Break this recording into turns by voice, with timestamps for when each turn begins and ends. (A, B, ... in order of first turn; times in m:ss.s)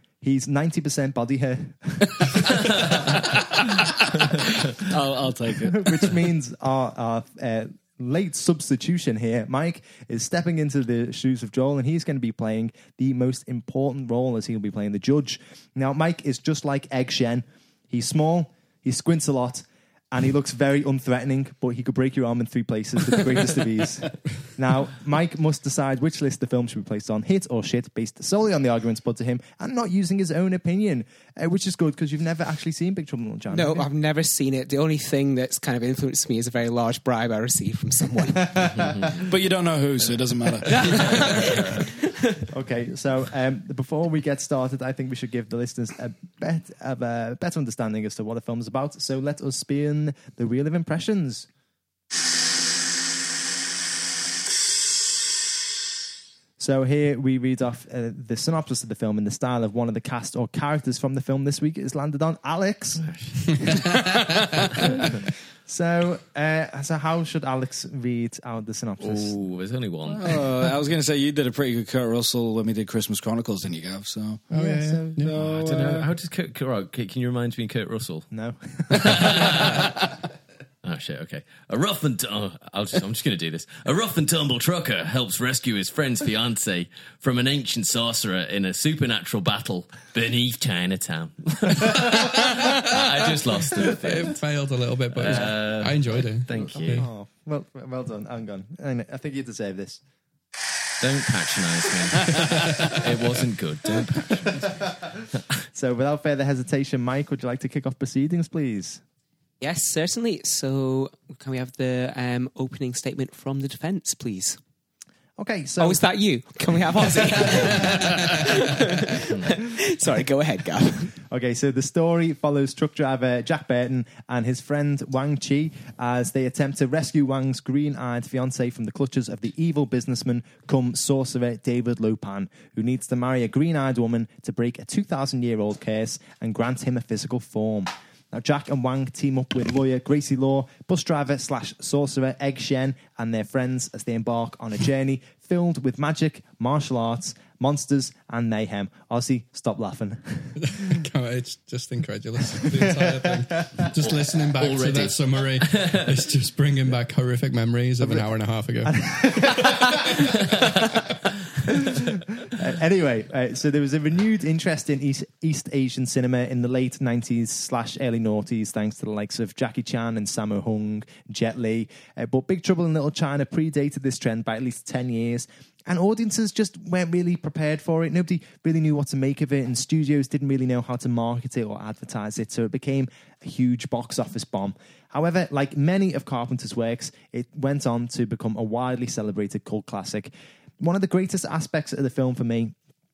0:00.2-0:03.1 A
0:04.8-0:06.2 B
0:05.6-0:33.9 A
0:33.5-0:38.6 C
0:38.4-0:39.2 A
0:39.2-0:41.5 B
0:40.6-0:42.4 C
0:42.5-0:51.5 A
0:56.6-1:03.1 A
1:03.0-1:03.4 D
1:04.8-1:09.4 A
1:09.0-1:10.4 D
1:10.1-1:14.5 B
1:14.5-1:15.3 A
1:14.5-1:15.6 E
1:15.2-1:16.1 B
1:15.4-1:18.3 D
1:18.3-1:19.7 A
1:18.9-1:19.9 D
1:20.8-1:34.4 D
1:33.8-1:37.1 E
1:35.1-1:37.0 D
1:36.6-1:40.0 A
1:41.0-1:44.6 D
1:45.7-1:49.0 A
1:49.6-1:54.6 C
1:55.4-1:56.0 A
1:55.8-2:01.1 C
2:01.3-2:31.0 A
2:30.6-2:39.7 E
2:32.6-2:33.8 A
2:34.0-2:36.2 D
2:38.8-2:39.9 A
2:42.0-3:12.7 A